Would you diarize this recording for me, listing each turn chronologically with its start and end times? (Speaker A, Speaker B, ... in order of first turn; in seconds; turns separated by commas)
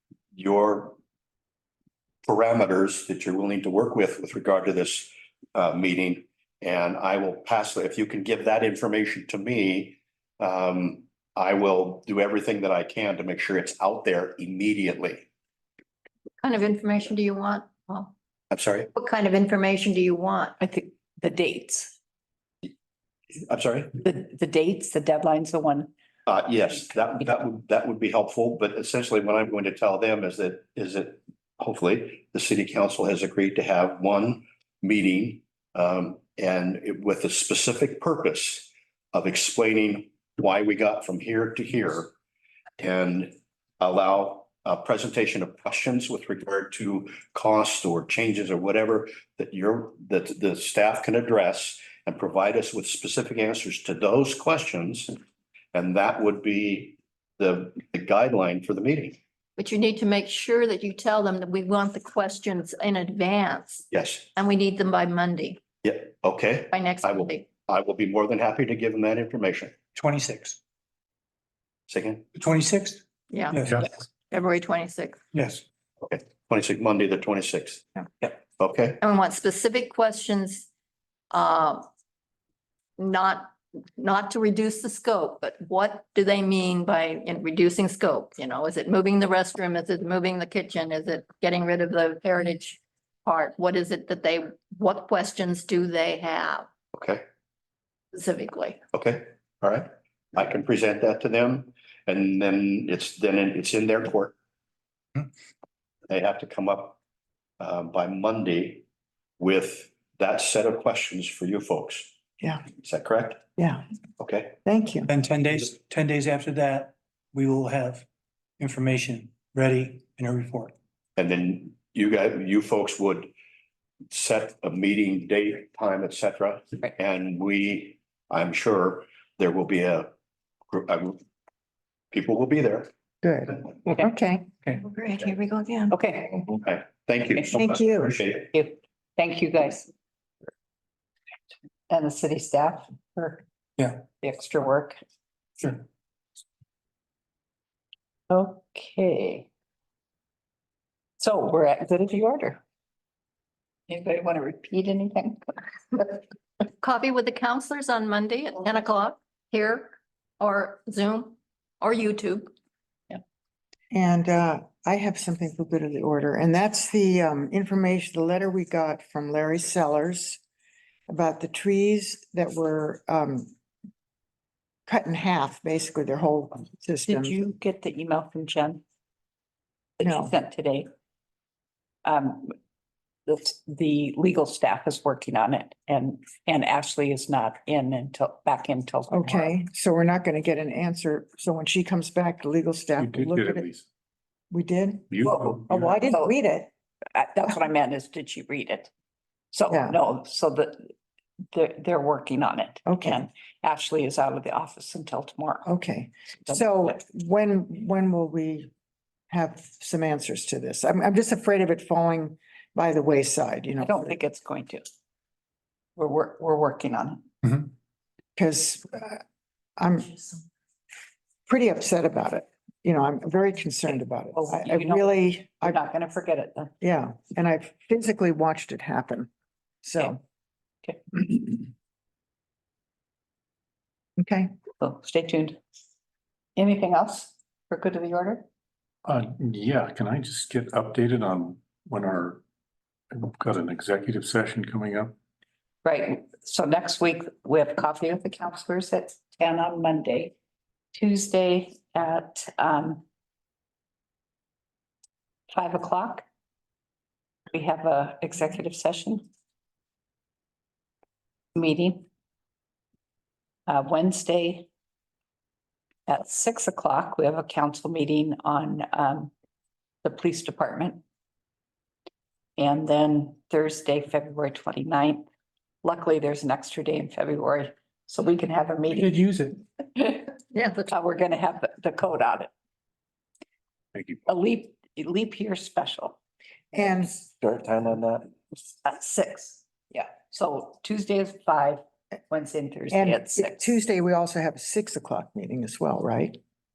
Speaker A: 0.3-0.9, Speaker A: 2.2-15.3, Speaker B: 16.4-18.1, Speaker A: 18.5-18.9, Speaker B: 18.9-20.5, Speaker C: 20.6-21.9, Speaker A: 23.5-24.0, Speaker C: 24.0-25.9, Speaker A: 26.3-42.1, Speaker A: 42.8-55.2, Speaker A: 55.7-59.2, Speaker B: 59.6-63.8, Speaker A: 63.9-64.3, Speaker B: 64.3-65.6, Speaker A: 65.8-69.7, Speaker B: 66.7-67.5, Speaker D: 69.9-70.6, Speaker A: 71.9-72.2, Speaker D: 72.3-73.9, Speaker B: 73.3-75.2, Speaker D: 75.3-75.6, Speaker A: 76.0-79.0, Speaker B: 79.0-80.7, Speaker B: 81.3-81.9, Speaker B: 83.0-96.7, Speaker A: 96.9-97.2, Speaker B: 98.1-98.8, Speaker A: 98.9-104.3, Speaker A: 106.1-107.0, Speaker A: 107.6-108.8, Speaker A: 109.4-112.1, Speaker E: 112.4-112.7, Speaker A: 112.8-113.4, Speaker E: 113.6-113.8, Speaker A: 114.2-114.5, Speaker E: 114.6-115.1, Speaker D: 115.1-118.0, Speaker D: 118.6-120.7, Speaker A: 121.2-123.3, Speaker A: 124.1-130.1, Speaker A: 130.7-131.2, Speaker A: 132.1-132.9, Speaker E: 133.2-135.9, Speaker C: 135.9-136.5, Speaker A: 136.6-138.5, Speaker E: 137.5-138.2, Speaker C: 138.5-139.9, Speaker C: 141.9-143.4, Speaker D: 143.8-144.0, Speaker C: 144.2-145.0, Speaker C: 148.3-149.5, Speaker C: 151.2-152.6, Speaker C: 153.9-156.2, Speaker B: 156.8-162.5, Speaker E: 163.9-170.4, Speaker E: 171.1-173.5, Speaker E: 174.9-177.3, Speaker C: 177.0-178.8, Speaker C: 180.0-180.9, Speaker E: 180.0-180.3, Speaker C: 182.0-182.5, Speaker C: 183.2-189.5, Speaker E: 189.1-193.7, Speaker F: 193.0-193.8, Speaker E: 194.5-196.7, Speaker F: 195.1-196.0, Speaker C: 195.2-196.4, Speaker C: 197.1-198.9, Speaker C: 199.5-200.9, Speaker E: 199.7-200.0, Speaker C: 201.5-205.7, Speaker E: 202.8-203.2, Speaker E: 205.7-208.7, Speaker E: 209.3-214.2, Speaker C: 213.8-214.9, Speaker C: 215.9-217.2, Speaker E: 218.3-219.2, Speaker E: 219.8-220.3, Speaker E: 221.4-225.8, Speaker C: 224.3-226.7, Speaker E: 226.8-229.3, Speaker E: 229.8-230.2, Speaker C: 230.8-231.4, Speaker E: 234.2-234.5, Speaker C: 234.8-235.6, Speaker C: 236.6-238.4, Speaker F: 239.0-242.4, Speaker F: 243.1-245.1, Speaker C: 245.8-250.3, Speaker C: 250.9-253.0, Speaker C: 255.5-256.2, Speaker C: 257.5-259.2, Speaker C: 261.5-262.1, Speaker C: 263.7-264.7, Speaker C: 266.1-269.3, Speaker C: 270.0-271.0, Speaker C: 272.6-275.2, Speaker C: 275.8-280.3, Speaker B: 280.5-280.9, Speaker C: 280.9-282.5, Speaker F: 283.9-284.2, Speaker C: 284.2-286.2, Speaker E: 286.7-287.1, Speaker C: 288.8-293.8, Speaker E: 292.9-296.4